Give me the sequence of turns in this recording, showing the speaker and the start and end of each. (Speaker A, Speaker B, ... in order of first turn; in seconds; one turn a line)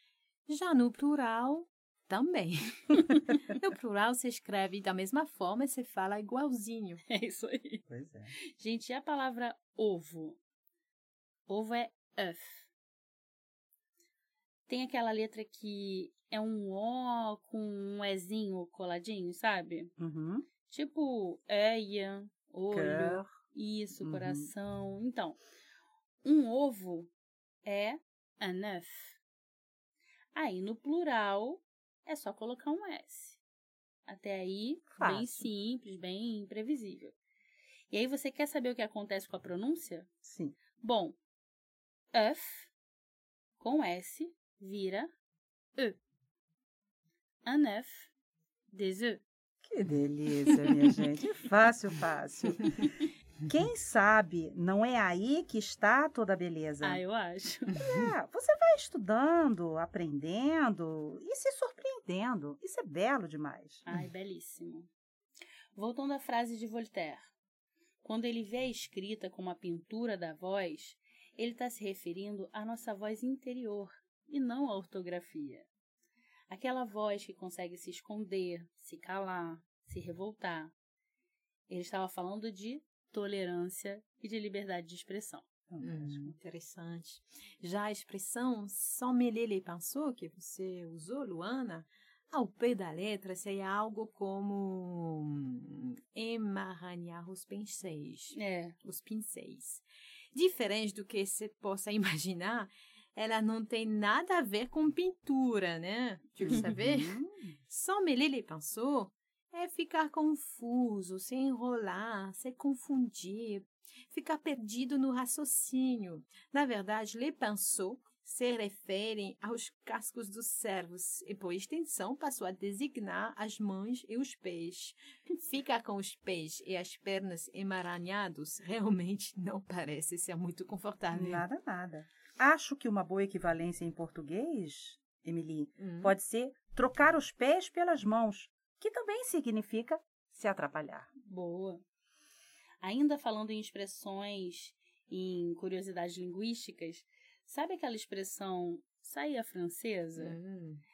Speaker A: 0.5-7.0
Speaker B: 7.1-7.8
Speaker C: 7.9-8.3
Speaker B: 8.6-10.4
Speaker B: 11.5-12.6
Speaker B: 14.7-19.9
Speaker C: 20.0-20.5
Speaker B: 20.7-25.4
Speaker C: 22.7-23.3
Speaker C: 24.0-24.5
Speaker B: 26.2-27.1
Speaker B: 27.6-29.2
Speaker B: 30.4-33.4
Speaker B: 34.1-37.1
Speaker C: 35.0-35.5
Speaker B: 37.9-40.1
Speaker C: 40.2-40.6
Speaker B: 40.8-41.2
Speaker B: 42.1-42.7
Speaker B: 43.6-45.1
Speaker B: 47.5-48.1
Speaker B: 48.7-49.2
Speaker C: 49.6-52.9
Speaker C: 53.5-57.0
Speaker B: 56.8-57.8
Speaker C: 57.8-63.8
Speaker B: 63.9-64.9
Speaker B: 65.8-67.3
Speaker B: 68.0-75.7
Speaker B: 76.5-80.7
Speaker B: 81.7-85.5
Speaker C: 85.7-86.3
Speaker A: 85.8-131.4
Speaker B: 98.3-98.8
Speaker C: 106.4-107.6
Speaker C: 131.1-141.1
Speaker A: 135.8-136.2
Speaker B: 141.2-141.8
Speaker B: 142.8-150.4
Speaker A: 150.2-150.8